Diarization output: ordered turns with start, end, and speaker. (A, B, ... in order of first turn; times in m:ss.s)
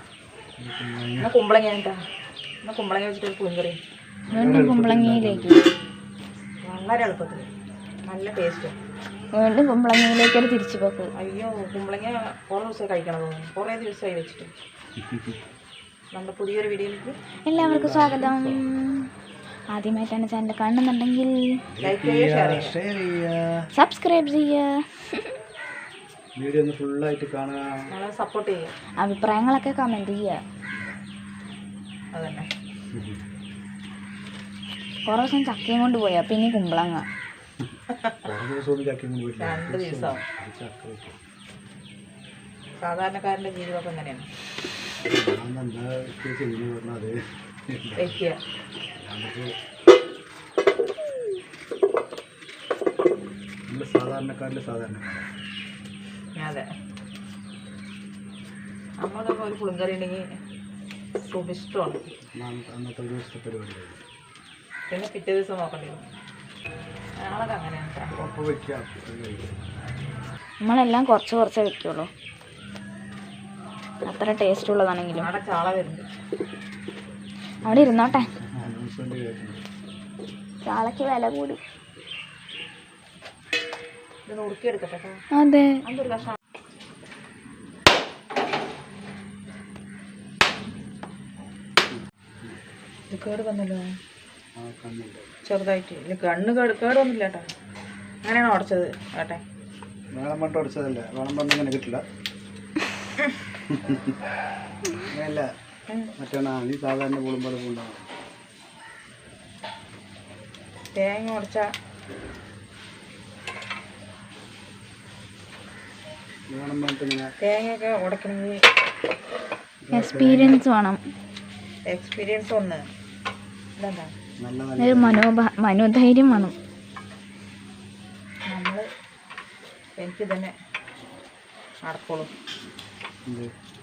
0:00.6-0:01.3 A
0:01.2-0:02.0 B
0:02.6-0:03.8 B
0:04.3-0:05.6 A
0:04.3-0:05.7 C
0:06.6-0:07.5 B
0:08.1-0:08.8 B
0:09.4-0:11.1 C
0:11.2-0:14.5 B
0:15.0-0:15.3 A
0:16.1-0:17.1 B
0:17.4-0:19.1 C
0:17.6-0:18.6 A
0:19.7-0:21.5 C
0:21.7-0:23.7 A
0:21.8-0:22.8 B
0:23.7-0:25.3 C
0:26.4-0:27.7 A
0:27.9-0:28.7 B
0:29.0-0:30.4 C
0:32.1-0:32.5 B
0:32.9-0:33.2 A
0:35.0-0:37.0 C
0:38.2-0:41.2 A
0:39.4-0:40.2 B
0:42.8-0:44.3 B
0:45.0-0:47.2 A
0:47.7-0:48.2 A
0:48.0-0:48.4 B
0:49.0-0:49.5 A
0:53.7-0:55.3 A
0:56.4-0:56.7 B
0:59.0-1:00.2 B
1:01.3-1:02.0 B
1:02.3-1:04.0 A
1:04.9-1:06.0 B
1:07.2-1:08.2 B
1:08.2-1:09.6 A
1:10.6-1:12.1 C
1:14.0-1:15.3 C
1:15.1-1:16.1 B
1:17.6-1:18.3 C
1:17.7-1:19.6 A
1:20.6-1:21.6 C
1:24.3-1:25.2 B
1:25.4-1:25.7 C
1:25.8-1:26.3 B
1:31.9-1:32.6 A
1:33.1-1:33.8 B
1:34.6-1:35.3 A
1:35.5-1:37.4 B
1:38.2-1:39.4 B
1:40.1-1:42.0 A
1:43.6-1:44.2 A
1:45.0-1:45.5 A
1:46.2-1:48.1 A
1:50.9-1:51.7 B
1:56.5-1:57.3 A
1:57.4-1:58.6 B
1:59.8-2:00.6 A
1:59.9-2:01.0 C
2:01.9-2:02.8 B
2:03.8-2:04.1 B
2:04.4-2:05.2 A
2:04.8-2:06.5 C
2:08.5-2:08.8 B
2:10.0-2:10.5 B
2:11.8-2:12.3 B